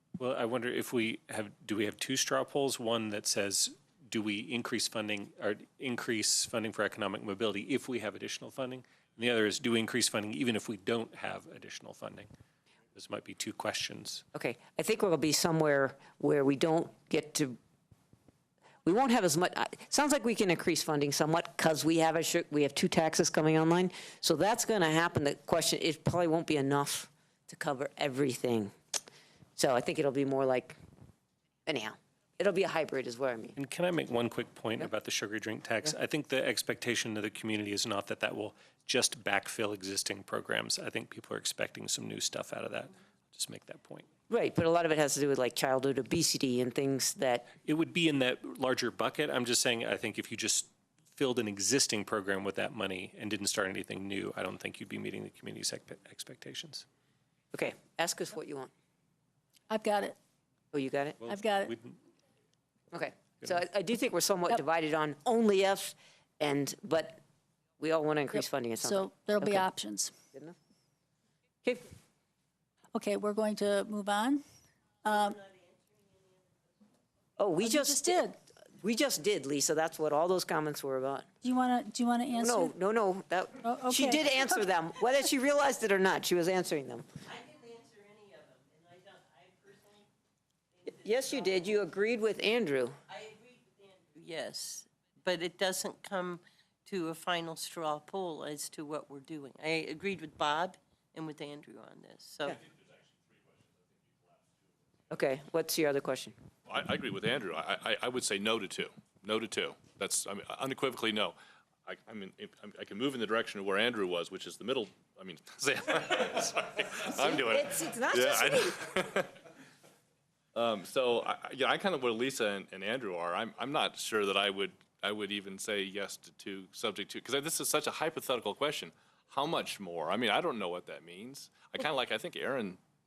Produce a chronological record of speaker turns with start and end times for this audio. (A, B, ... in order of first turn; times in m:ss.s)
0:00.2-0:12.3 A
0:12.9-0:14.2 A
0:14.3-0:17.6 B
0:18.8-0:28.7 B
0:29.6-0:30.8 B
0:31.7-0:33.6 B
0:33.6-0:44.1 A
0:44.3-0:47.5 B
0:47.6-0:56.8 A
0:57.5-0:58.7 B
0:59.7-1:00.2 C
1:00.7-1:01.2 B
1:01.2-1:02.0 A
1:01.2-1:01.7 C
1:02.9-1:07.2 B
1:07.8-1:09.6 B
1:08.3-1:10.1 C
1:11.6-1:11.9 B
1:12.9-1:14.4 C
1:15.0-1:15.4 C
1:17.4-1:18.2 B
1:17.6-1:18.4 C
1:18.8-1:21.3 B
1:21.4-1:22.7 C
1:22.3-1:27.1 B
1:23.6-1:24.6 C
1:30.9-1:33.0 B
1:34.1-1:42.4 D
1:45.1-1:46.3 B
1:46.7-1:51.3 E
1:51.8-1:59.3 E
1:57.0-1:58.8 B
2:00.5-2:12.8 E